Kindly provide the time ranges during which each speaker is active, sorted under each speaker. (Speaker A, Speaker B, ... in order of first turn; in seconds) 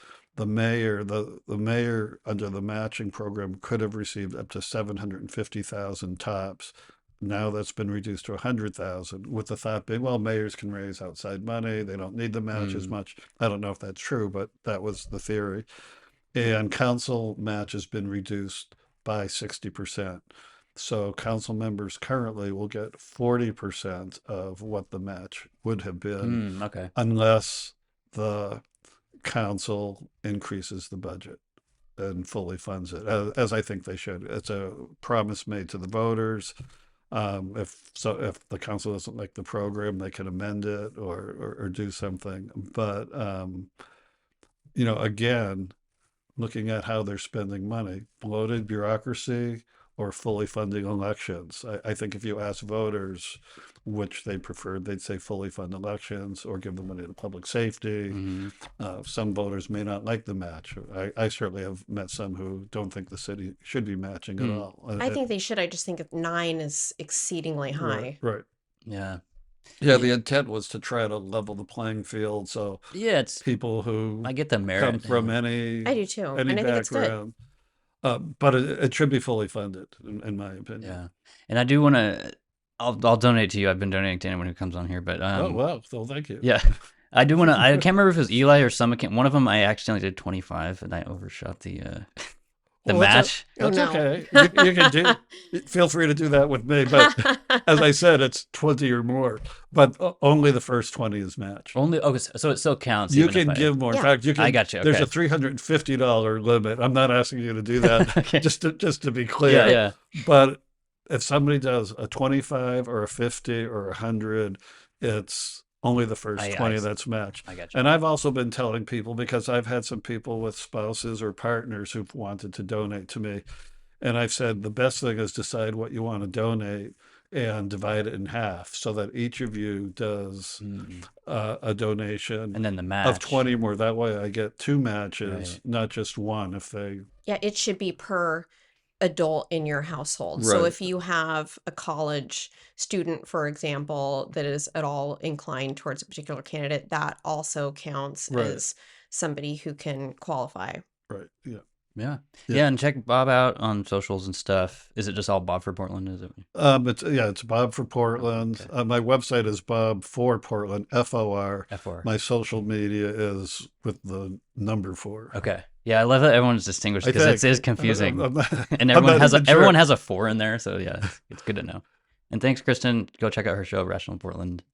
Speaker A: 0.4-15.7, 16.3-20.2, 20.8-28.6, 29.2-31.4, 32.0-36.5, 37.1-43.7, 44.8-45.7, 46.4-58.2, 58.8-65.2, 67.8-68.4, 69.8-72.8, 73.4-77.3, 78.0-81.0, 85.3-86.5, 92.8-101.8, 103.1-123.4, 124.0-130.6, 131.2-137.1, 140.4-140.8, 148.3-148.6, 151.1-151.6, 156.5-165.3, 167.0-169.8
Speaker B: 12.5-12.9, 26.2-26.9, 58.1-58.5, 64.4-64.7, 68.8-69.2, 72.9-73.5, 74.2-75.3, 80.8-85.6, 86.4-92.3, 92.8-93.5, 101.7-103.7, 104.4-105.1, 107.8-108.5, 109.5-110.0, 116.4-116.9, 117.5-117.8, 130.6-131.1, 132.5-133.4, 135.2-135.6, 152.0-156.4, 158.2-158.7, 161.7-162.1, 165.3-174.6
Speaker C: 65.0-68.2, 75.8-77.2, 93.6-95.1, 97.0-97.7, 137.3-138.5, 139.0-150.8